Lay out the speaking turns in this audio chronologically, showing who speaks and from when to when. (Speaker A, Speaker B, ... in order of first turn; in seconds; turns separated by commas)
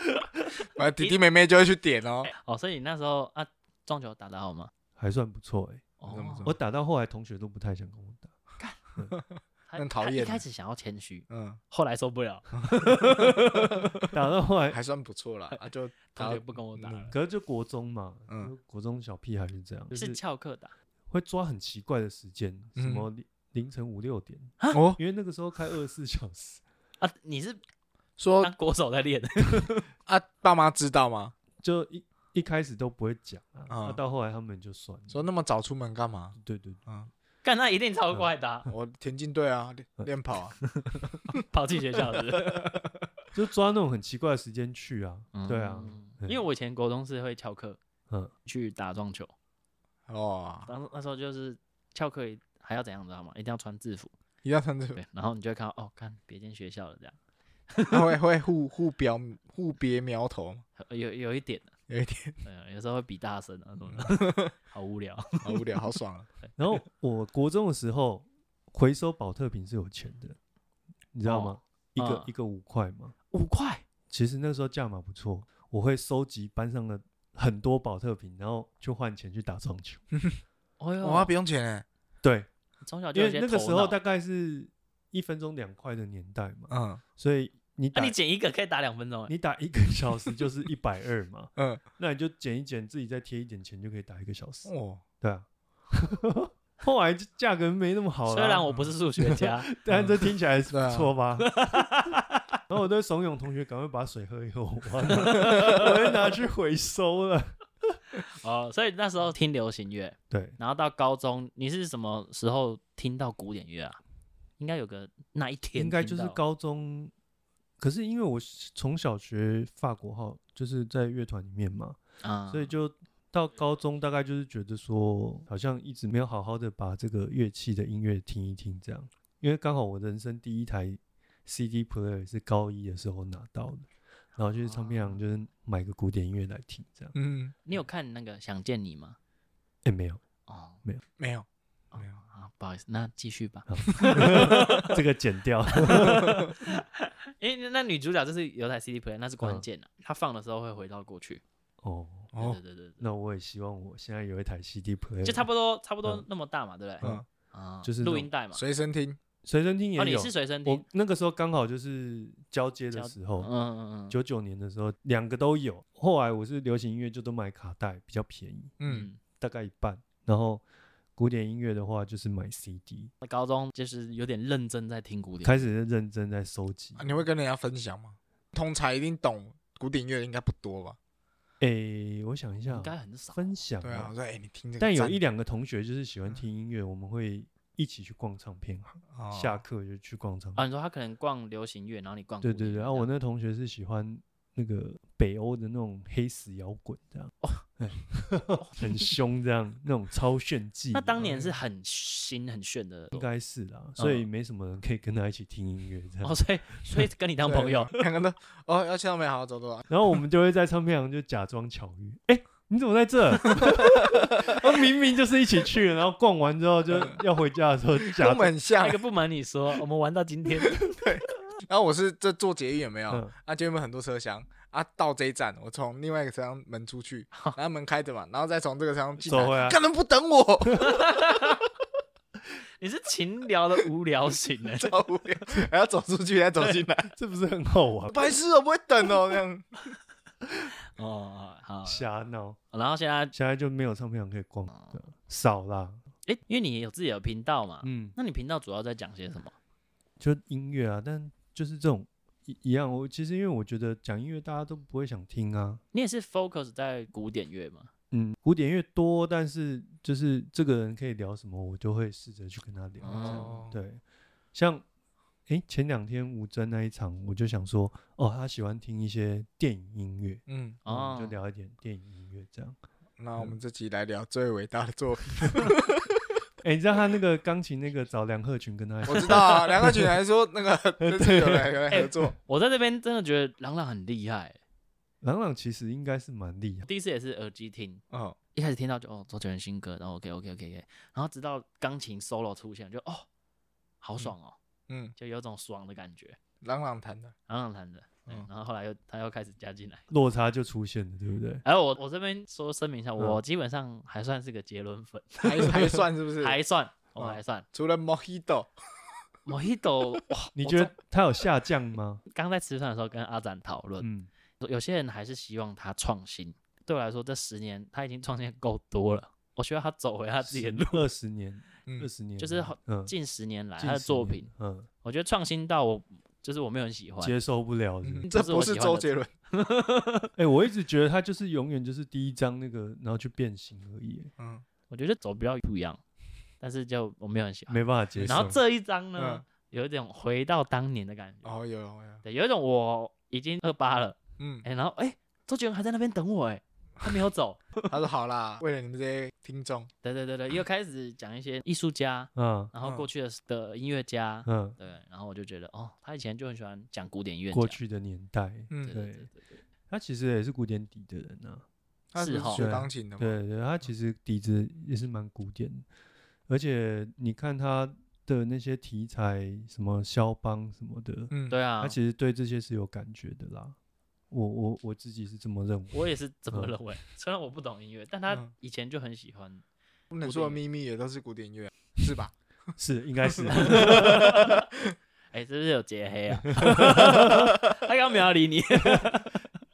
Speaker A: 0.8-2.3, Speaker B: 2.3-4.7, Speaker C: 5.0-5.9, Speaker B: 6.0-6.5, Speaker A: 6.1-6.5, Speaker C: 6.5-8.3, Speaker A: 9.1-10.4, Speaker B: 9.7-13.8, Speaker A: 11.3-11.6, Speaker A: 12.6-14.1, Speaker C: 14.1-14.8, Speaker A: 14.7-17.1, Speaker B: 15.5-17.1, Speaker C: 17.1-20.2, Speaker B: 19.9-20.7, Speaker C: 21.1-26.6, Speaker A: 22.8-23.1, Speaker A: 24.7-25.0, Speaker B: 27.0-27.6, Speaker A: 28.2-28.5, Speaker B: 28.4-29.8, Speaker A: 30.1-31.4, Speaker C: 31.6-35.3, Speaker A: 33.7-34.0, Speaker A: 35.1-37.1, Speaker C: 36.4-36.8, Speaker B: 37.4-38.7, Speaker A: 38.7-40.6, Speaker B: 40.6-42.8, Speaker A: 42.4-42.9, Speaker C: 43.3-46.4, Speaker B: 45.3-47.8, Speaker B: 48.5-49.3, Speaker A: 50.1-50.7, Speaker B: 50.7-54.1, Speaker A: 54.4-55.0, Speaker B: 55.0-57.2, Speaker B: 57.7-58.1, Speaker A: 57.9-60.6, Speaker B: 60.8-61.7, Speaker A: 61.9-62.4, Speaker B: 62.4-65.8, Speaker A: 64.0-64.5, Speaker A: 65.4-66.3, Speaker C: 66.6-70.4, Speaker C: 71.1-73.1, Speaker B: 71.2-72.3, Speaker B: 73.3-73.8, Speaker C: 74.1-80.0, Speaker A: 80.1-80.4, Speaker B: 80.8-81.3, Speaker A: 81.0-81.9, Speaker C: 82.2-82.5, Speaker B: 82.8-84.0, Speaker C: 83.1-88.2, Speaker A: 86.7-87.0, Speaker B: 87.9-89.3, Speaker C: 89.3-101.6, Speaker A: 91.6-91.8, Speaker A: 94.7-95.0, Speaker B: 98.3-99.7, Speaker A: 99.9-101.1, Speaker B: 101.4-102.4, Speaker C: 102.7-108.0, Speaker B: 105.1-105.9, Speaker B: 108.2-114.0, Speaker C: 110.3-110.6, Speaker B: 114.6-116.4, Speaker C: 115.8-117.1, Speaker C: 117.8-122.0, Speaker B: 122.2-122.7, Speaker C: 122.5-137.1, Speaker B: 134.6-135.2, Speaker A: 137.1-137.5, Speaker B: 137.7-139.2, Speaker C: 139.8-140.2, Speaker B: 140.5-140.8, Speaker A: 141.2-141.4, Speaker B: 141.9-145.0, Speaker C: 143.7-146.5, Speaker A: 144.0-144.6, Speaker B: 145.7-151.4, Speaker A: 145.9-146.5, Speaker C: 149.4-149.7, Speaker C: 151.8-152.3, Speaker A: 152.3-152.6, Speaker B: 152.3-153.0, Speaker C: 153.0-155.5, Speaker B: 155.2-158.6, Speaker C: 157.8-158.3, Speaker A: 158.5-159.2, Speaker C: 159.4-163.5, Speaker B: 160.0-160.8, Speaker B: 162.9-164.2, Speaker C: 164.1-168.8, Speaker A: 168.8-169.1, Speaker B: 168.8-169.2, Speaker C: 169.4-170.6, Speaker C: 171.2-173.1, Speaker B: 173.2-175.7, Speaker C: 175.4-177.2, Speaker A: 177.0-181.0, Speaker C: 181.6-184.1, Speaker B: 182.7-183.4, Speaker A: 183.8-185.2, Speaker C: 184.8-190.6, Speaker A: 189.1-189.6, Speaker B: 190.6-193.1, Speaker C: 192.4-201.2, Speaker B: 198.5-199.1, Speaker B: 200.9-203.3, Speaker A: 201.2-201.6, Speaker C: 203.1-207.1, Speaker B: 204.0-204.3, Speaker B: 206.2-208.0, Speaker A: 207.4-209.9, Speaker C: 209.9-218.5, Speaker A: 216.9-217.2, Speaker A: 218.1-219.0, Speaker B: 218.8-220.9, Speaker A: 220.6-231.1, Speaker C: 229.2-229.8, Speaker B: 230.8-231.7, Speaker B: 232.8-235.0, Speaker A: 234.8-237.1, Speaker C: 237.1-238.2, Speaker A: 238.1-239.8, Speaker B: 240.9-242.1, Speaker C: 241.8-242.6, Speaker B: 242.7-243.3, Speaker C: 243.3-246.0, Speaker B: 244.7-245.0, Speaker B: 246.3-249.6, Speaker C: 247.8-248.2, Speaker C: 250.2-255.8, Speaker B: 255.9-257.9, Speaker C: 258.1-264.0, Speaker B: 263.0-263.6, Speaker A: 263.1-263.8, Speaker C: 264.5-264.9, Speaker C: 265.5-272.8, Speaker A: 270.5-270.8, Speaker B: 270.9-271.4, Speaker A: 273.2-276.2, Speaker C: 276.6-280.1, Speaker A: 279.1-282.4, Speaker B: 279.1-279.6, Speaker C: 281.0-281.8, Speaker B: 281.9-284.6, Speaker C: 285.2-286.9, Speaker B: 286.9-288.0, Speaker A: 288.1-288.4, Speaker B: 288.5-293.3, Speaker B: 294.0-294.6, Speaker A: 294.9-295.1, Speaker B: 295.2-296.4, Speaker A: 296.6-297.3, Speaker B: 297.5-300.1, Speaker C: 300.1-301.6, Speaker B: 301.6-307.6, Speaker A: 305.4-306.6, Speaker A: 307.2-308.7, Speaker B: 309.5-310.9, Speaker C: 310.6-312.2, Speaker B: 312.3-314.1, Speaker C: 314.0-314.3, Speaker B: 314.6-321.1, Speaker C: 320.4-323.1, Speaker B: 322.4-324.5, Speaker C: 323.8-324.9, Speaker B: 325.0-327.3, Speaker C: 327.2-328.3, Speaker A: 328.0-329.3, Speaker B: 328.3-330.3, Speaker C: 330.4-334.3, Speaker A: 334.4-334.6, Speaker B: 334.9-336.0, Speaker B: 336.6-341.5, Speaker C: 337.7-338.6, Speaker A: 338.2-338.5, Speaker A: 339.2-339.4, Speaker A: 341.4-342.2, Speaker B: 342.2-347.9, Speaker A: 344.4-344.6, Speaker A: 347.9-349.9, Speaker B: 350.0-357.8, Speaker C: 352.4-352.7, Speaker A: 352.8-353.1, Speaker C: 354.5-354.8, Speaker C: 357.5-359.3, Speaker A: 358.7-359.0, Speaker B: 358.8-359.5, Speaker C: 359.9-361.6, Speaker A: 362.1-363.4, Speaker B: 362.2-362.6, Speaker C: 362.5-365.9, Speaker C: 366.5-373.8, Speaker A: 371.3-371.6, Speaker B: 371.5-372.0, Speaker C: 374.3-376.8, Speaker B: 375.9-379.6, Speaker A: 380.1-382.3, Speaker B: 380.2-380.6, Speaker C: 382.8-384.5, Speaker A: 383.2-384.9, Speaker B: 383.5-384.7, Speaker B: 385.3-389.4, Speaker C: 386.5-387.5, Speaker C: 388.9-389.2